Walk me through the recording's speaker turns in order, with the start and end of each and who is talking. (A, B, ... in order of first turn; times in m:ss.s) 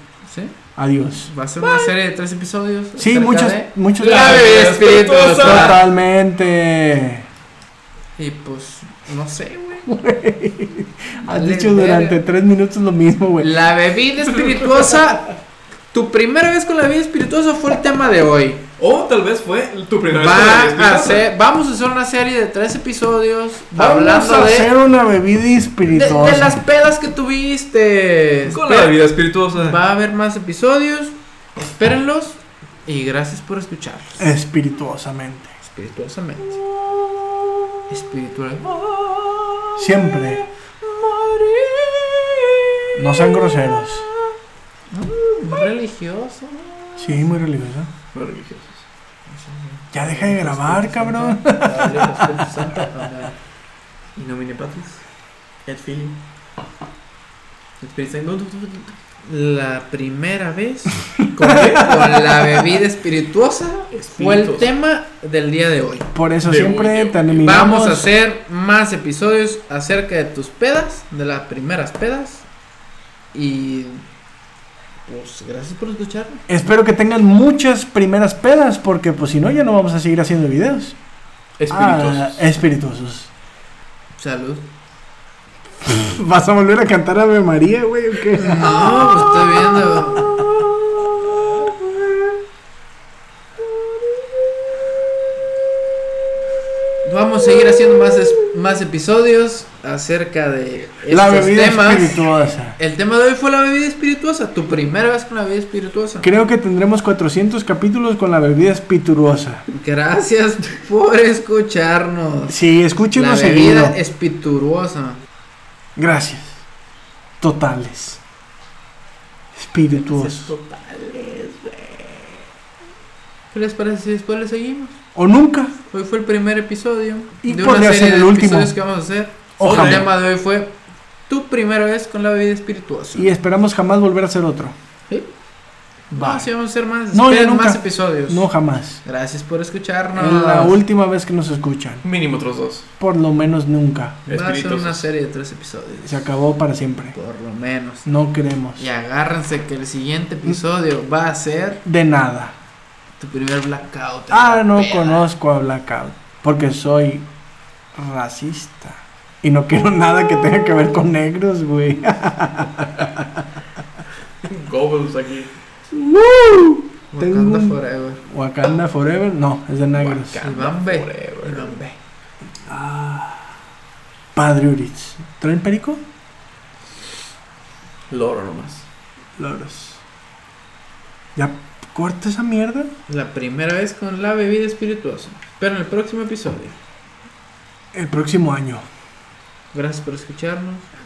0:00.2-0:00.6 A
0:00.8-0:01.3 B
0:01.2-0:05.7 A
0:01.6-0:01.9 C
0:03.0-0:04.4 B
0:04.0-0:05.8 C
0:05.4-0:07.3 B
0:08.2-0:09.9 A
0:09.9-0:13.6 B
0:11.3-0:12.2 A
0:13.4-0:15.3 A
0:15.9-0:18.6 A
0:18.8-0:21.3 C
0:20.1-0:24.7 A
0:23.7-0:26.6 B
0:25.9-0:29.0 A
0:28.5-0:29.8 C
0:29.6-0:34.3 A
0:34.2-0:35.6 B
0:35.6-0:36.6 A
0:37.9-0:38.9 A
0:39.8-0:40.4 B
0:41.0-0:41.3 C
0:41.3-0:42.1 A
0:42.9-0:44.1 B
0:43.1-0:43.4 A
0:44.9-0:47.3 A
0:47.0-0:47.9 B
0:48.1-0:48.9 C
0:49.3-0:53.3 A
0:49.9-0:52.6 B
0:54.2-0:55.0 C
0:55.6-0:56.2 C
0:57.8-0:58.9 C
0:59.2-1:06.1 A
1:01.4-1:02.2 C
1:03.9-1:04.7 C
1:06.1-1:08.1 B
1:06.4-1:07.6 C
1:07.4-1:12.5 A
1:13.3-1:14.0 A
1:15.1-1:16.4 A
1:16.5-1:21.0 B
1:21.6-1:22.5 C
1:21.7-1:23.3 B
1:24.2-1:24.6 A
1:25.8-1:30.6 B
1:28.3-1:30.4 A
1:31.4-1:31.8 B
1:37.0-1:46.3 A
1:41.1-1:42.8 B
1:46.2-1:49.6 B
1:49.7-1:55.2 A
1:52.5-1:54.0 B
1:56.0-1:56.6 B
1:57.4-1:58.2 B
1:59.5-2:00.5 B
2:00.1-2:02.0 C
2:03.5-2:05.0 A
2:05.1-2:05.7 B
2:05.9-2:10.7 A
2:07.4-2:08.7 B
2:09.6-2:10.1 B
2:09.6-2:10.1 C
2:11.3-2:13.3 A
2:13.2-2:14.7 B
2:16.1-2:16.5 B
2:16.1-2:18.5 A
2:17.1-2:19.0 B
2:19.0-2:20.8 A
2:20.1-2:22.0 B
2:22.0-2:22.9 C
2:23.0-2:24.2 B
2:24.3-2:25.1 C
2:24.3-2:26.2 A
2:26.0-2:27.2 B
2:27.1-2:28.1 A
2:28.0-2:28.8 B
2:28.8-2:31.8 A
2:31.8-2:32.6 B
2:33.2-2:35.3 A
2:34.3-2:37.3 B
2:37.9-2:43.4 B
2:44.4-2:45.5 C
2:45.9-2:50.4 B
2:47.1-2:48.2 A
2:50.0-2:51.8 C
2:50.2-2:52.0 A
2:52.6-2:53.5 B
2:54.4-2:56.0 B
2:58.1-2:58.9 C
2:59.4-3:00.0 B
3:01.4-3:02.9 B
3:03.1-3:06.8 A
3:07.9-3:08.8 B
3:09.7-3:10.9 A